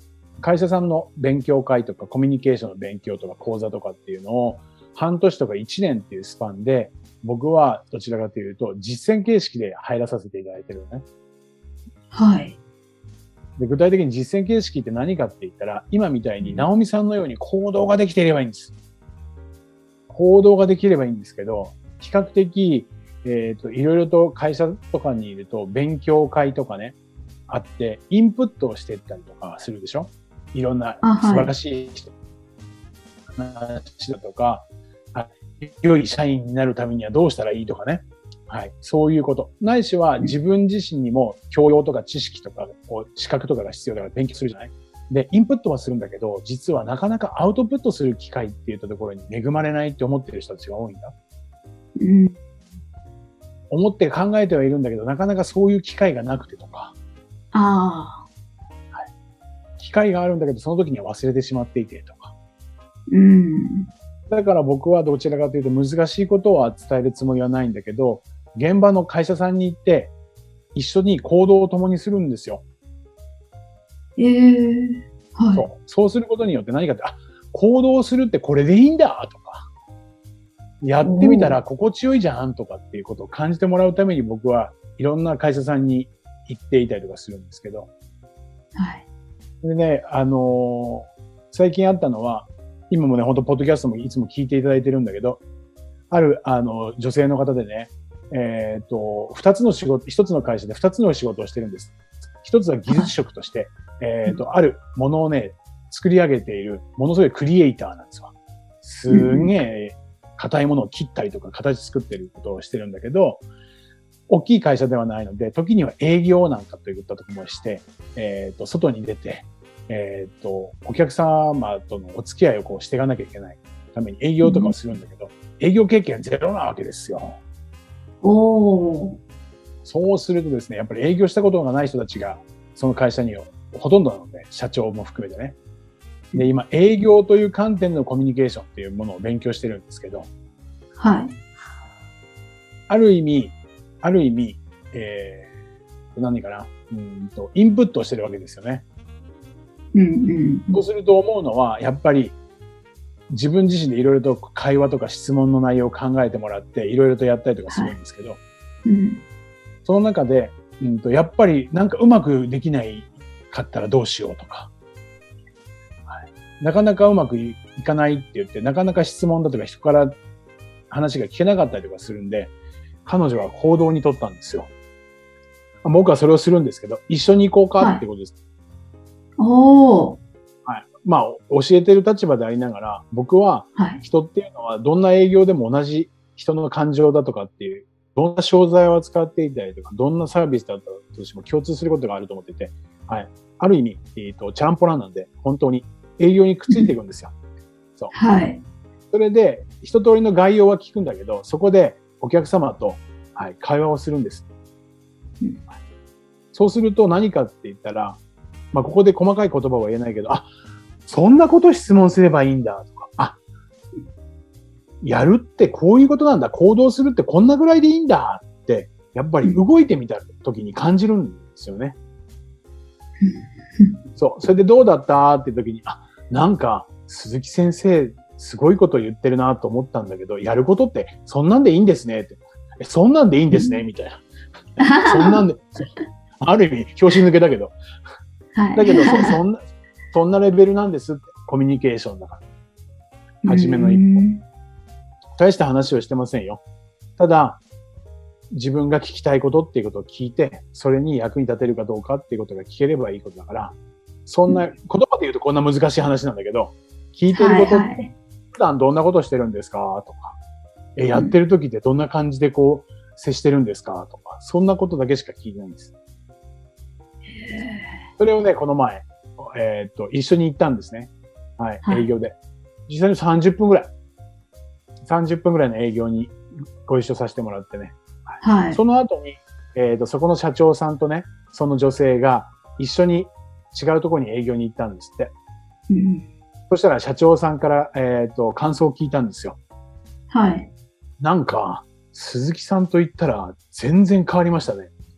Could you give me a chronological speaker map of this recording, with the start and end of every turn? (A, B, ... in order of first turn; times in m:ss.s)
0:00.4-0:11.0 A
0:12.1-0:12.6 B
0:13.6-0:18.7 A
0:16.4-0:16.6 B
0:20.1-0:27.0 A
0:27.5-0:32.1 A
0:31.0-0:31.5 B
0:33.3-0:51.1 A
0:52.0-0:52.3 B
0:53.7-0:56.9 A
0:57.5-0:58.2 B
0:59.8-1:02.3 A
1:03.1-1:03.9 B
1:04.3-1:10.1 A
1:10.7-1:12.6 A
1:14.2-1:15.6 B
1:15.5-1:19.6 A
1:20.8-1:27.9 A
1:21.0-1:21.6 B
1:28.8-1:29.0 B
1:29.6-1:35.4 A
1:36.1-1:53.4 A
1:49.1-1:49.5 B
1:54.3-2:07.4 A
2:04.4-2:04.7 B
2:08.2-2:09.2 B
2:09.8-2:15.6 A
2:16.3-2:20.3 A
2:21.0-2:21.3 B
2:22.9-2:25.5 A
2:26.1-2:28.8 A
2:29.9-2:30.8 B
2:30.7-2:32.4 A
2:33.3-2:38.4 A
2:37.7-2:38.0 B
2:38.8-2:39.2 B
2:39.8-2:44.7 A
2:46.1-2:50.2 A
2:50.9-2:52.5 A
2:53.0-2:54.7 A
2:55.8-2:58.3 A
2:59.4-3:00.2 B
3:00.6-3:17.3 A
3:03.8-3:04.0 B
3:18.1-3:18.6 B
3:19.1-3:24.5 A
3:26.5-3:28.2 A
3:28.7-3:30.5 A
3:31.0-3:33.4 A
3:35.0-3:42.0 A
3:43.2-3:44.0 B
3:44.2-3:54.2 A
3:53.5-3:53.8 B
3:54.8-3:55.4 B
3:55.0-3:57.8 A
3:58.5-3:59.4 B
3:58.7-4:02.4 A
4:03.4-4:04.4 B
4:03.4-4:04.2 A
4:05.4-4:06.6 A
4:07.2-4:07.6 A
4:08.5-4:13.8 A
4:14.2-4:20.4 A
4:17.3-4:18.1 B
4:21.0-4:25.9 A
4:27.2-4:28.0 B
4:28.2-4:32.4 A
4:31.8-4:32.1 B
4:32.9-4:33.9 A
4:35.0-4:45.3 A
4:38.4-4:38.8 B
4:45.9-4:46.3 B
4:46.7-4:49.6 A
4:50.3-4:50.7 B
4:51.2-4:54.9 A